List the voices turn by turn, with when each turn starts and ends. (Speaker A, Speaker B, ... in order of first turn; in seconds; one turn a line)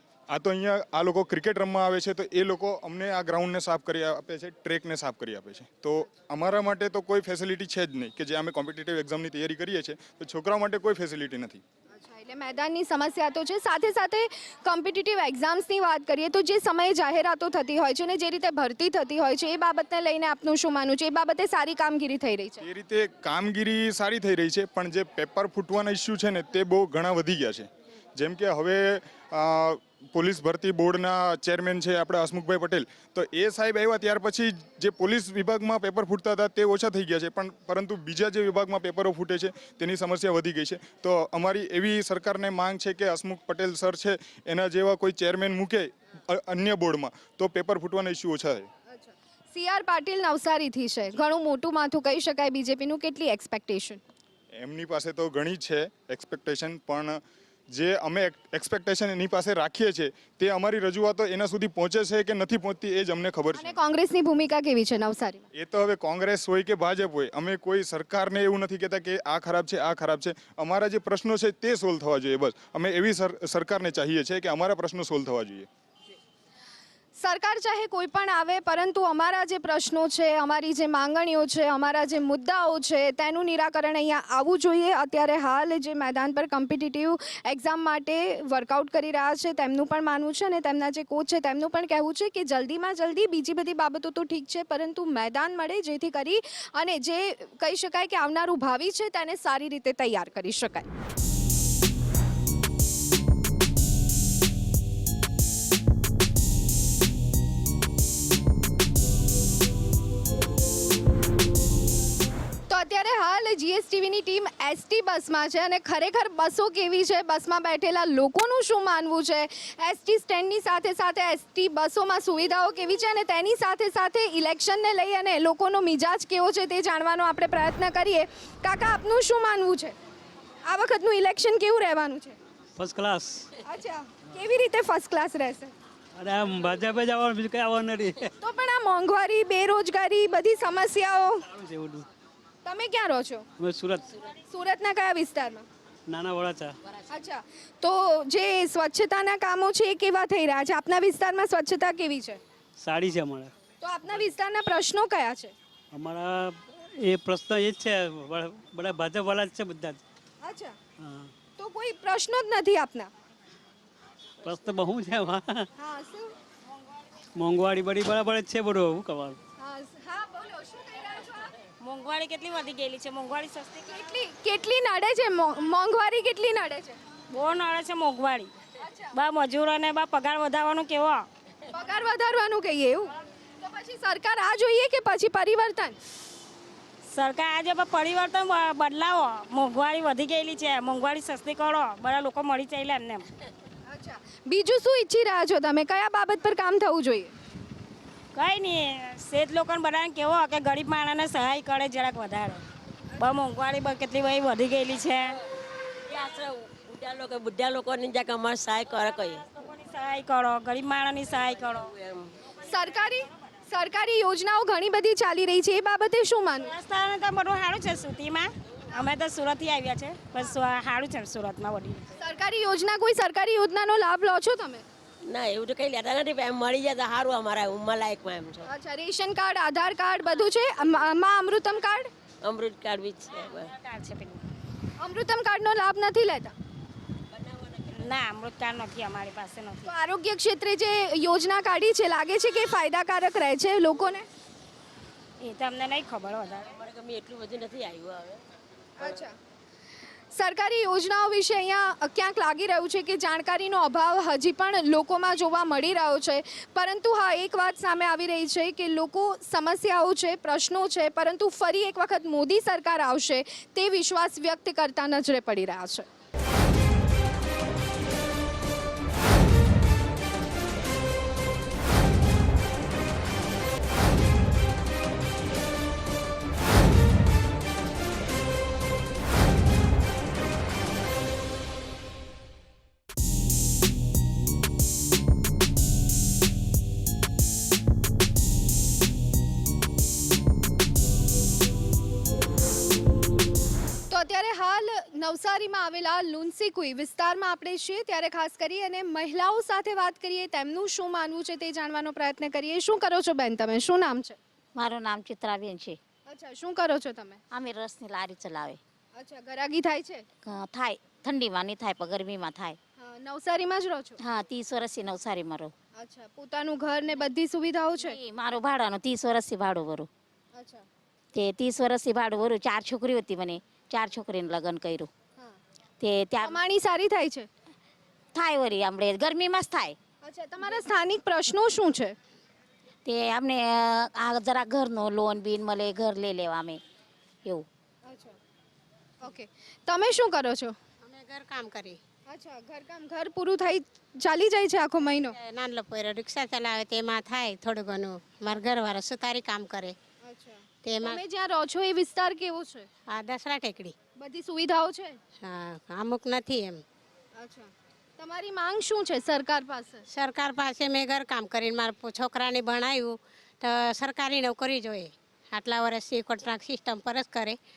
Speaker A: 0.3-11.6
Speaker B: 11.9-22.6
Speaker A: 22.6-48.7
Speaker B: 48.9-54.0
Speaker A: 54.5-63.8
Speaker B: 63.5-65.5
Speaker A: 65.5-75.7
Speaker B: 77.2-100.9
Speaker B: 112.7-129.9
Speaker B: 130.7-132.4
Speaker C: 132.8-133.5
Speaker B: 133.7-135.7
Speaker C: 136.2-138.3
Speaker B: 138.4-141.4
Speaker C: 141.5-142.1
Speaker B: 142.7-143.4
Speaker C: 143.6-144.1
Speaker B: 144.5-145.7
Speaker C: 146.1-146.8
Speaker B: 147.1-152.4
Speaker C: 152.8-153.5
Speaker B: 153.8-155.5
Speaker C: 155.9-160.0
Speaker B: 160.4-160.8
Speaker C: 161.0-161.3
Speaker B: 161.6-163.1
Speaker C: 164.4-165.7
Speaker B: 165.8-166.3
Speaker C: 167.4-169.4
Speaker B: 169.6-171.5
Speaker D: 171.8-173.9
Speaker B: 173.9-177.0
Speaker D: 177.3-178.5
Speaker B: 178.8-179.1
Speaker D: 179.1-181.2
Speaker B: 181.7-183.1
Speaker B: 183.6-186.0
Speaker D: 187.1-193.3
Speaker B: 193.9-197.3
Speaker D: 198.3-202.6
Speaker D: 203.2-205.3
Speaker E: 206.1-209.4
Speaker D: 209.6-211.9
Speaker E: 211.9-212.2
Speaker B: 212.7-216.7
Speaker D: 216.6-222.2
Speaker B: 222.2-224.8
Speaker E: 225.3-228.7
Speaker B: 228.7-232.1
Speaker E: 232.4-233.7
Speaker D: 233.7-234.4
Speaker B: 235.0-236.5
Speaker E: 237.3-238.1
Speaker D: 237.9-239.9
Speaker B: 239.8-244.3
Speaker D: 245.4-246.8
Speaker E: 246.7-248.4
Speaker B: 249.0-249.3
Speaker B: 250.3-266.1
Speaker B: 294.1-304.4
Speaker F: 304.8-306.0
Speaker B: 306.3-307.4
Speaker F: 307.5-308.8
Speaker B: 309.1-310.2
Speaker F: 310.5-312.8
Speaker B: 313.0-314.2
Speaker F: 314.2-315.7
Speaker B: 316.0-318.2
Speaker F: 318.0-320.1
Speaker B: 320.6-320.9
Speaker F: 321.3-325.1
Speaker F: 326.0-326.6
Speaker B: 326.4-327.5
Speaker F: 328.3-330.0
Speaker B: 330.2-332.2
Speaker F: 333.1-336.8
Speaker B: 338.1-338.4
Speaker B: 339.2-340.8
Speaker G: 341.0-342.0
Speaker B: 342.3-345.4
Speaker G: 345.3-350.0
Speaker B: 350.2-352.9
Speaker G: 350.8-351.2
Speaker G: 353.1-353.9
Speaker B: 354.2-355.2
Speaker G: 355.4-356.8
Speaker B: 357.4-360.0
Speaker G: 360.1-367.6